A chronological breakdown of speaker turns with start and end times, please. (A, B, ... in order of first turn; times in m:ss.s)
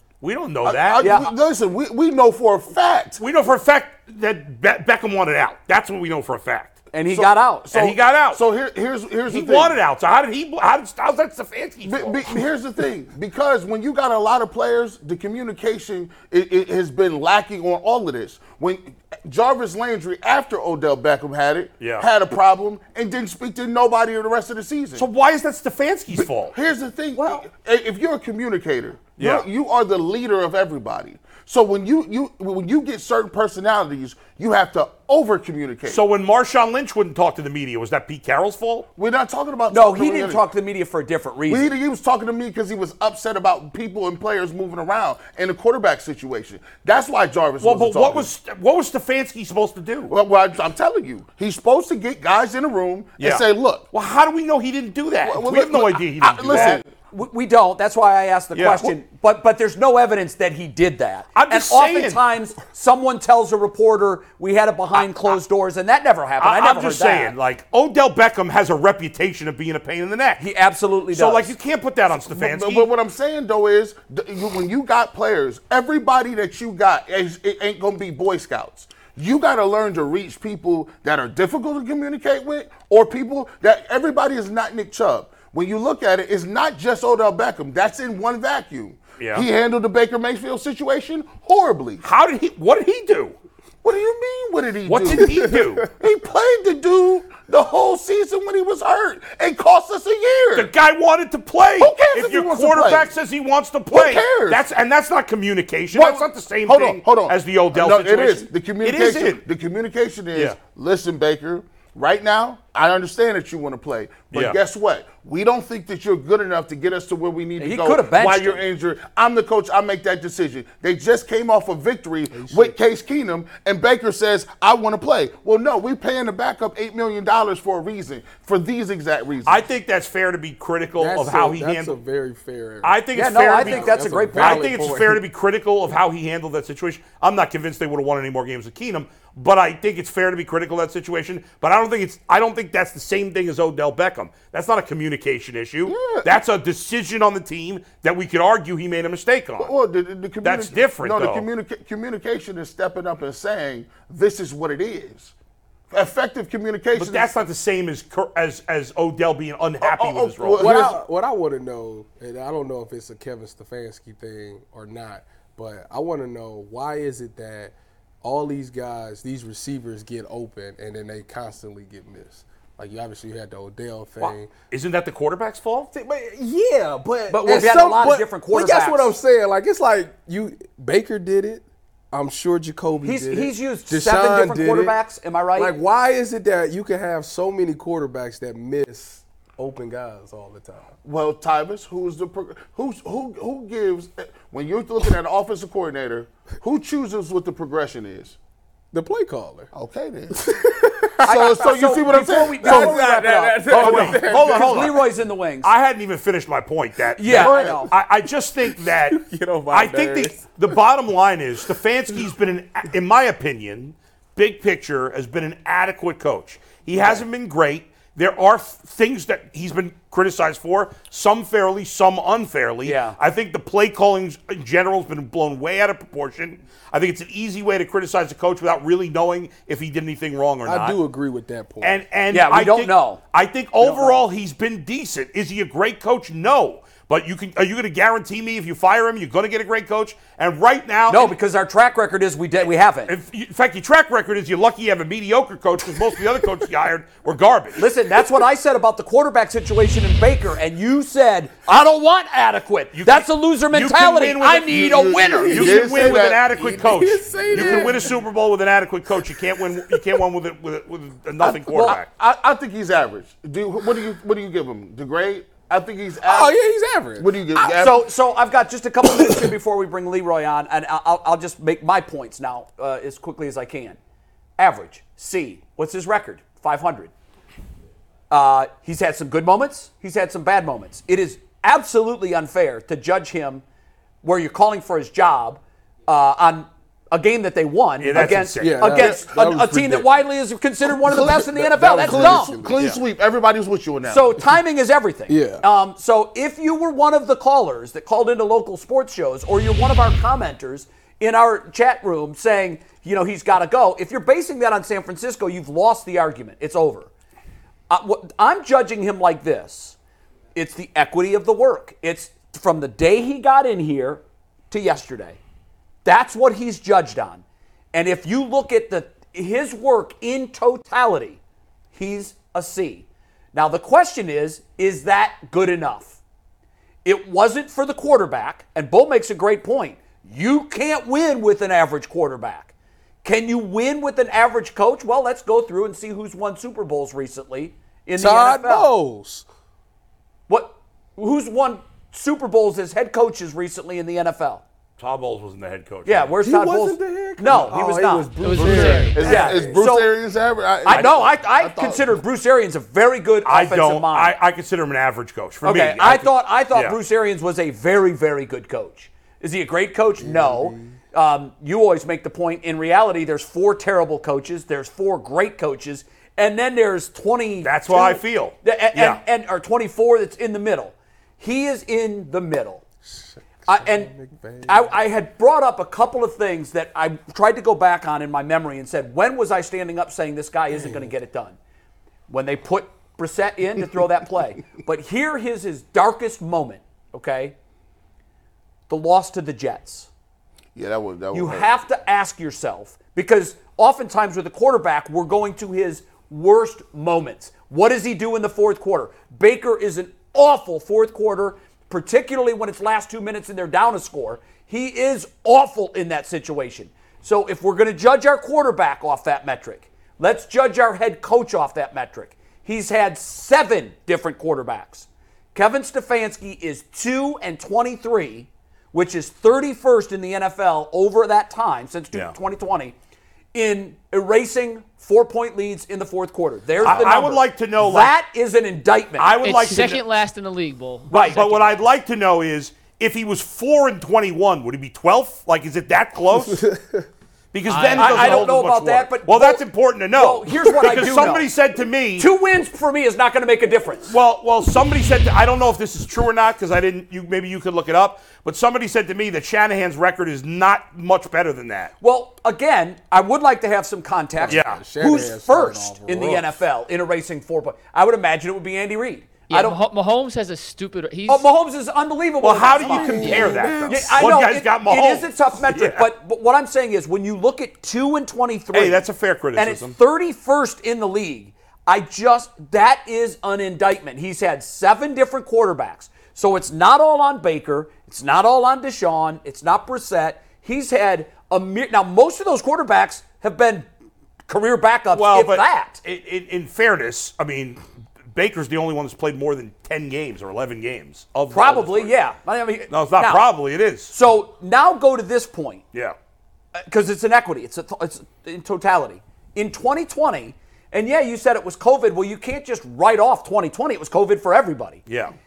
0:00.2-0:01.1 A
0:00.6-0:03.2 B
0:01.0-0:01.3 C
0:03.2-0:08.4 A
0:06.9-0:07.9 C
0:07.2-0:09.8 B
0:09.3-0:12.4 A
0:11.9-0:25.1 B
0:21.8-0:22.1 A
0:25.0-0:26.5 A
0:26.5-0:36.0 B
0:27.2-0:27.5 C
0:29.2-0:29.5 A
0:35.9-0:38.9 A
0:39.0-0:40.4 B
0:39.7-0:41.7 C
0:41.5-0:48.3 B
0:47.6-0:50.1 A
0:50.1-0:53.8 B
0:53.2-0:56.8 A
0:55.2-0:56.9 B
0:56.5-1:07.3 C
0:58.6-0:58.9 A
1:01.4-1:02.2 A
1:05.0-1:05.4 A
1:06.4-1:10.4 A
1:10.4-1:11.5 C
1:11.1-1:12.9 A
1:12.2-1:32.0 B
1:29.2-1:29.5 A
1:32.0-1:33.4 A
1:33.8-1:40.7 B
1:34.9-1:35.9 A
1:35.4-1:35.8 D
1:40.6-1:49.4 A
1:41.8-1:43.1 B
1:43.9-1:44.6 B
1:45.9-2:09.6 B
1:54.3-1:54.6 A
1:57.6-1:58.6 C
2:02.3-2:02.8 D
2:09.5-2:12.0 A
2:11.0-2:13.0 D
2:12.8-2:29.7 A
2:13.1-2:14.8 C
2:13.6-2:15.2 D
2:25.9-2:26.4 B
2:29.6-2:35.3 B
2:30.4-2:31.5 A
2:35.9-2:37.3 B
2:37.0-2:40.8 A
2:39.8-2:41.0 B
2:40.6-2:54.5 D
2:54.2-2:55.9 A
2:55.9-3:05.0 D
2:57.3-2:59.2 C
3:03.0-3:05.7 C
3:05.6-3:11.0 D
3:11.0-3:18.4 B
3:18.9-3:19.7 D
3:19.7-3:23.0 B
3:20.4-3:21.4 D
3:21.2-3:25.7 C
3:22.6-3:25.0 D
3:23.7-3:25.0 A
3:25.6-3:51.0 A
3:27.2-3:27.9 C
3:27.3-3:27.8 B
3:29.1-3:30.5 D
3:42.8-3:43.2 C
3:50.6-3:52.0 D
3:51.8-4:01.4 A
3:52.3-3:53.2 C
4:01.1-4:03.1 C
4:03.1-4:07.8 A
4:07.8-4:15.8 C
4:13.0-4:14.9 A
4:14.7-4:16.6 B
4:15.5-4:18.2 D
4:15.5-4:22.1 A
4:17.5-4:17.9 B
4:21.4-4:26.6 B
4:21.7-4:22.0 C
4:26.2-4:27.3 D
4:27.2-4:28.1 B
4:27.6-4:34.0 C
4:34.6-4:37.1 C
4:38.3-4:43.6 C
4:44.2-4:52.6 C
4:48.0-4:49.0 A
4:48.2-4:50.1 D
4:49.0-4:49.3 B
4:51.1-4:54.4 B
4:51.1-4:52.8 D
4:54.1-5:07.1 C
4:55.3-4:55.6 D
5:07.9-5:10.0 C
5:10.6-5:15.4 C
5:16.0-5:21.4 C
5:21.9-5:26.2 C
5:27.0-5:32.7 C
5:33.2-5:38.9 C
5:38.2-5:39.4 D
5:40.5-5:44.6 C
5:45.0-5:46.3 A
5:46.0-5:50.1 C
5:46.4-5:49.7 D
5:48.4-5:49.4 E
5:49.1-5:52.2 B
5:50.8-5:54.3 C
5:53.4-5:57.0 A
5:55.6-6:12.8 C
6:00.2-6:01.0 D
6:07.6-6:09.2 A
6:13.1-6:15.0 D
6:13.7-6:14.1 C
6:14.6-6:21.6 C
6:22.3-6:27.6 C
6:28.9-6:30.1 C
6:30.8-6:31.7 B
6:31.3-7:03.0 C
7:03.5-7:09.6 C
7:06.8-7:08.1 A
7:09.2-7:10.0 A
7:09.4-7:11.8 E
7:11.1-7:11.4 C
7:11.1-7:16.7 A
7:16.5-7:17.1 D
7:17.5-7:22.3 A
7:17.7-7:18.5 E
7:18.0-7:21.5 C
7:22.2-7:24.1 C
7:24.1-7:31.9 A
7:32.0-7:39.8 C
7:34.4-7:36.6 D
7:34.5-7:34.8 A
7:39.5-7:41.5 E
7:41.3-7:49.0 C
7:42.4-7:46.1 A
7:42.8-7:44.2 D
7:43.2-7:43.8 E
7:48.7-7:50.0 A
7:49.6-8:03.9 C
8:04.5-8:06.0 C
8:05.1-8:07.8 A
8:08.3-8:12.1 A
8:11.5-8:13.5 C
8:12.9-8:14.1 A
8:14.1-8:15.8 C
8:16.7-8:25.0 C
8:25.1-8:25.4 A